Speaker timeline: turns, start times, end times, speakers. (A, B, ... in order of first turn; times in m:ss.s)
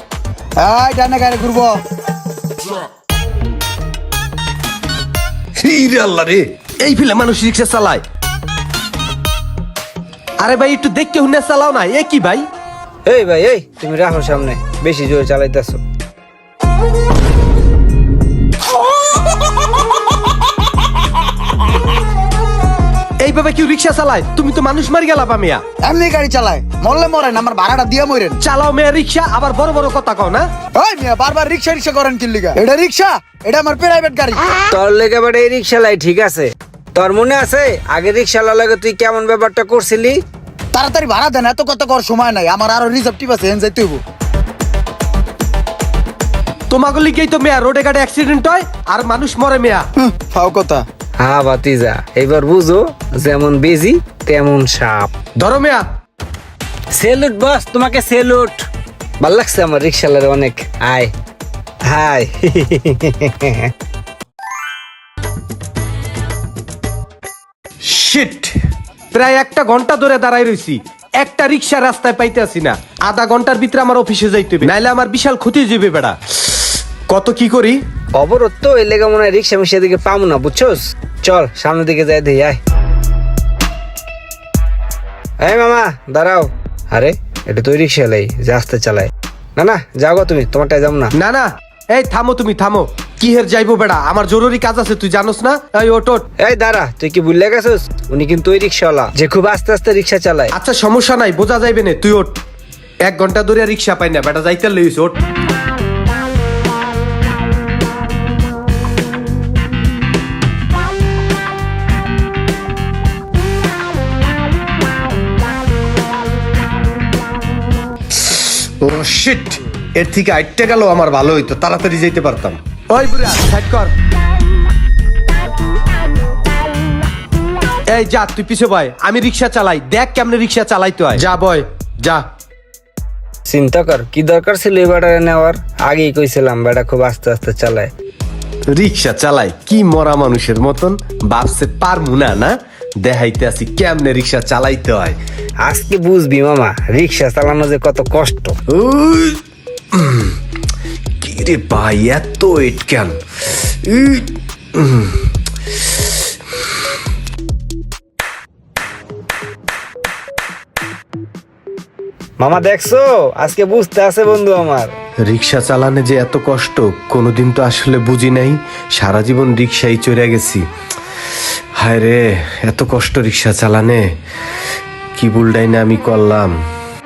0:00.6-0:01.8 A
0:05.6-0:08.0 B
0:10.4-0:12.4 B
0:13.0-0:15.8 C
0:23.2-0:25.6 B
0:25.8-0:28.4 A
0:28.4-0:30.5 B
0:30.8-0:34.4 A
0:34.7-0:40.2 C
0:40.7-0:44.0 A
0:46.7-0:49.8 B
0:50.0-0:50.8 A
0:51.2-0:55.1 C
0:55.4-0:55.8 B
0:56.9-0:58.7 C
0:59.2-1:01.1 C
1:01.8-1:03.7 C
1:07.8-1:08.6 B
1:09.1-1:16.5 B
1:17.1-1:17.8 B
1:18.2-1:22.6 C
1:25.4-1:31.1 C
1:31.1-1:36.2 B
1:36.4-1:40.5 C
1:40.5-1:42.3 B
1:43.0-1:45.2 B
1:58.2-2:03.9 B
2:07.9-2:12.2 B
2:13.5-2:17.9 C
2:18.7-2:25.2 B
2:25.6-2:28.6 C
2:28.7-2:29.4 B
2:29.9-2:30.4 B
2:31.2-2:35.2 B
2:42.4-2:44.9 C
2:45.3-2:50.6 B
2:51.8-2:54.0 B
2:55.2-2:56.5 B